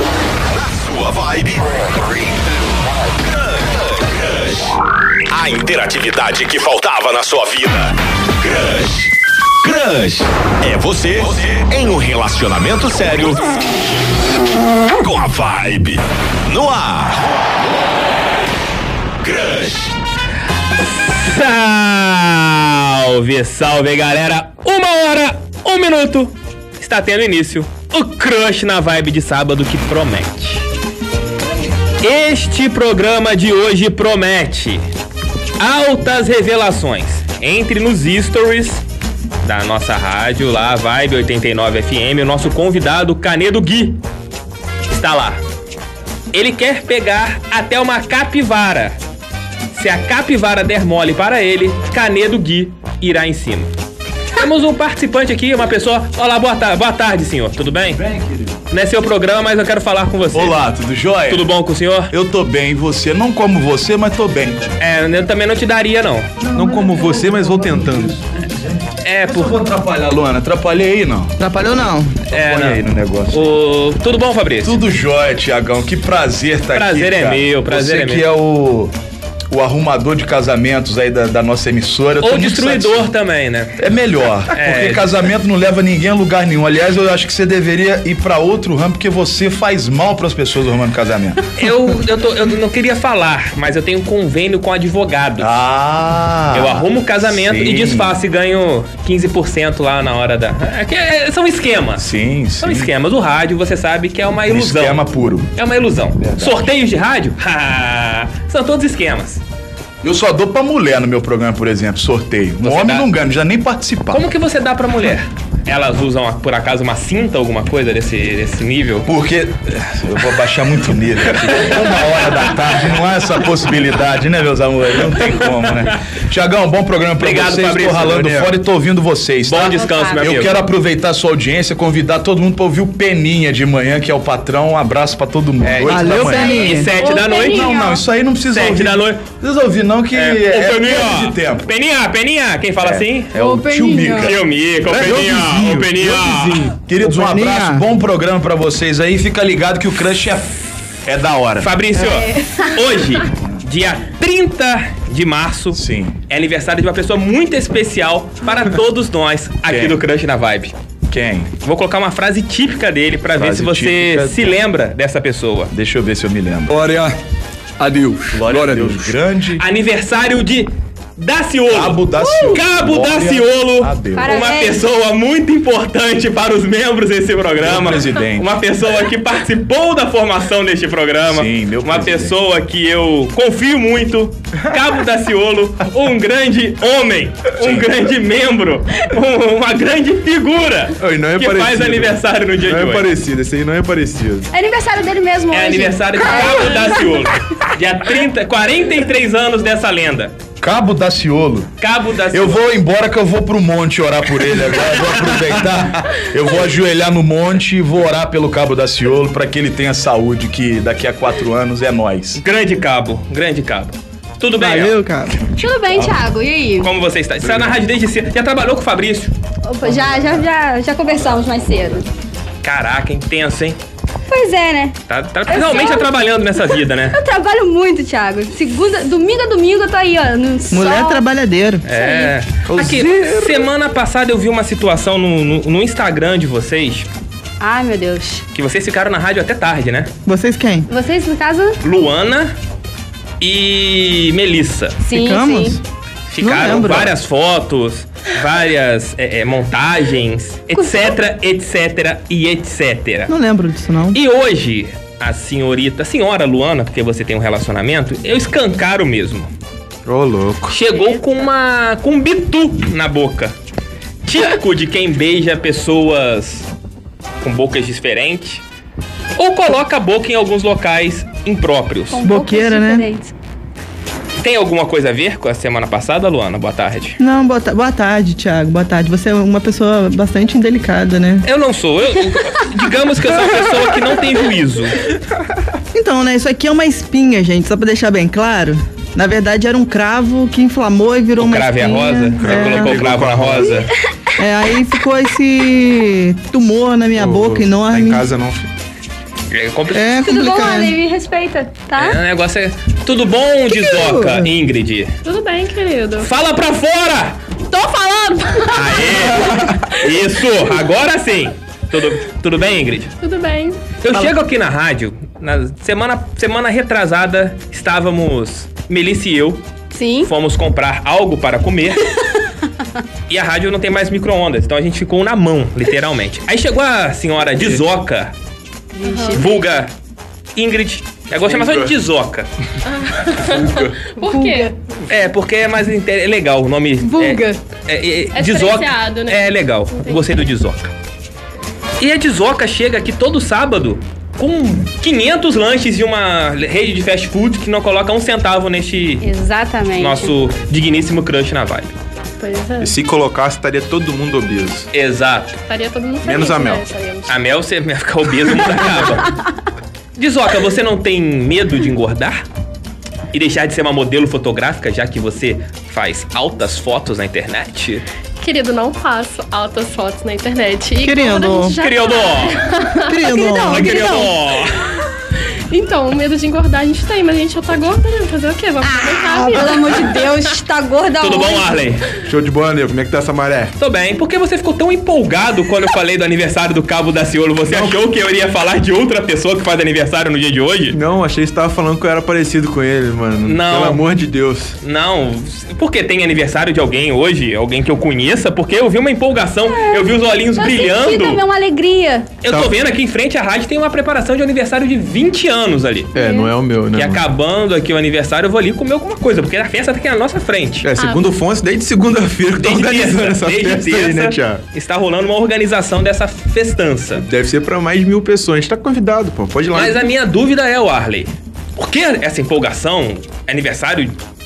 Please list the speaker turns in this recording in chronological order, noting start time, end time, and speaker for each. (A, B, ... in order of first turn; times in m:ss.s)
0:00.7-0:02.1 A
0:03.5-0:04.6 A
0:05.3-0:09.1 A
0:09.6-0:13.5 A
0:15.0-0:17.3 A
0:19.2-0:19.9 A
0:20.8-0:30.7 B
0:32.0-0:34.8 B
0:35.6-0:38.8 B
0:39.4-0:44.0 B
0:44.9-0:45.4 B
0:46.3-0:49.0 B
0:49.7-0:53.7 B
0:54.4-0:58.0 B
0:58.0-0:58.6 C
0:58.7-1:00.6 B
1:00.3-1:01.5 C
1:01.3-1:02.1 B
1:02.1-1:04.7 C
1:04.8-1:06.3 B
1:06.5-1:11.4 C
1:06.5-1:08.2 D
1:09.0-1:09.6 B
1:11.4-1:12.2 E
1:12.3-1:14.8 B
1:12.3-1:13.5 C
1:14.6-1:18.9 C
1:16.7-1:18.2 B
1:19.5-1:23.1 C
1:22.2-1:23.8 B
1:23.8-1:31.4 C
1:24.5-1:25.2 B
1:31.6-1:35.6 B
1:35.4-1:38.2 C
1:36.5-1:42.1 B
1:42.0-1:42.9 C
1:42.6-1:49.4 B
1:44.5-1:45.5 C
1:46.2-1:46.7 C
1:50.0-1:54.3 C
1:52.6-1:53.1 B
1:54.1-1:59.1 B
1:59.1-2:16.6 C
2:05.2-2:06.0 B
2:07.2-2:08.5 B
2:09.5-2:10.6 B
2:09.7-2:10.4 F
2:15.6-2:17.7 B
2:15.8-2:16.9 E
2:16.2-2:18.0 F
2:17.4-2:21.7 C
2:18.5-2:19.3 B
2:20.1-2:23.4 B
2:22.8-2:24.4 C
2:23.4-2:24.4 F
2:24.2-2:26.7 B
2:24.9-2:26.7 D
2:26.8-2:31.7 C
2:27.0-2:27.8 E
2:31.6-2:40.7 B
2:32.0-2:32.7 F
2:35.7-2:36.2 C
2:39.7-2:40.0 C
2:41.1-2:41.5 C
2:41.6-2:45.7 B
2:43.4-2:44.6 C
2:45.7-2:47.0 C
2:46.8-2:47.1 D
2:47.8-2:49.1 D
2:48.3-2:49.6 C
2:49.6-3:13.1 B
2:51.7-2:54.3 C
2:52.2-2:52.6 F
2:54.2-2:54.8 F
2:57.6-2:58.5 C
3:01.3-3:02.4 C
3:07.6-3:07.9 C
3:11.0-3:14.5 D
3:14.5-3:17.2 F
3:15.5-3:20.4 B
3:20.6-3:21.7 C
3:21.8-3:22.6 B
3:22.3-3:32.4 C
3:32.4-3:35.0 B
3:34.6-3:35.5 E
3:35.6-3:36.9 F
3:36.8-3:39.3 B
3:39.6-3:42.1 F
3:42.6-3:43.8 B
3:44.3-3:45.0 F
3:45.1-3:47.2 B
3:45.5-3:46.1 F
3:47.1-3:51.2 F
3:50.7-3:51.8 E
3:51.8-3:57.1 B
3:51.9-3:52.3 F
3:52.7-3:53.7 D
3:57.6-3:58.4 F
3:58.5-4:00.1 B
4:00.3-4:00.9 E
4:00.9-4:01.8 F
4:01.8-4:02.6 B
4:03.4-4:05.0 B
4:05.0-4:05.8 F
4:05.1-4:05.8 E
4:06.3-4:13.3 B
4:06.4-4:07.2 E
4:13.3-4:14.2 E
4:14.1-4:19.5 B
4:20.1-4:20.8 D
4:20.7-4:23.6 B
4:24.2-4:26.7 B
4:27.4-4:28.6 B
4:29.4-4:32.2 B
4:32.1-4:33.3 F
4:32.2-4:33.1 E
4:34.4-4:37.2 B
4:37.2-4:41.4 E
4:41.4-4:45.0 B
4:45.9-4:53.0 E
4:51.4-4:53.9 B
4:52.4-4:53.8 D
4:54.4-4:58.3 E
4:57.2-4:58.7 D
4:59.5-5:00.0 B
4:59.9-5:01.0 E
5:00.2-5:02.2 F
5:02.0-5:05.2 B
5:03.8-5:04.5 E
5:05.2-5:06.3 G
5:06.2-5:07.4 B
5:07.7-5:09.8 F
5:08.7-5:13.1 B
5:13.2-5:13.8 G
5:14.0-5:19.6 B
5:19.9-5:20.3 F
5:20.2-5:22.1 B
5:23.3-5:28.3 B
5:29.0-5:29.5 F
5:29.0-5:29.4 G
5:29.3-5:29.9 B
5:30.6-5:32.5 B
5:31.4-5:31.9 D
5:32.9-5:34.7 G
5:33.4-5:34.0 D
5:34.2-5:34.7 F
5:35.1-5:40.9 B
5:37.0-5:37.6 F
5:38.3-5:40.3 G
5:42.0-5:49.3 B
5:49.2-5:50.3 F
5:50.0-5:51.9 B
5:52.4-5:53.0 G
5:52.8-5:54.9 D
5:54.9-5:55.6 B
5:55.7-5:57.3 G
5:56.2-5:56.9 D
5:57.3-5:59.4 B
6:00.2-6:02.4 B
6:03.3-6:08.0 B
6:08.4-6:13.1 G
6:11.0-6:11.8 E
6:11.8-6:12.6 B
6:13.1-6:13.9 E
6:13.4-6:14.3 F
6:13.6-6:14.9 B
6:15.7-6:20.5 G
6:18.8-6:21.8 F
6:21.2-6:22.0 B
6:22.3-6:23.8 D
6:23.8-6:31.0 B
6:27.7-6:28.0 D
6:30.9-6:34.8 D
6:33.4-6:34.0 B
6:34.8-6:41.4 B
6:39.6-6:42.3 F
6:42.4-6:46.2 B
6:42.5-6:42.8 D
6:46.2-6:46.5 F
6:46.2-6:47.3 D
6:46.9-6:50.9 B
6:50.8-6:54.6 D
6:51.0-6:51.4 G
6:52.6-6:57.3 B
6:57.3-7:00.0 D
6:59.8-7:04.2 B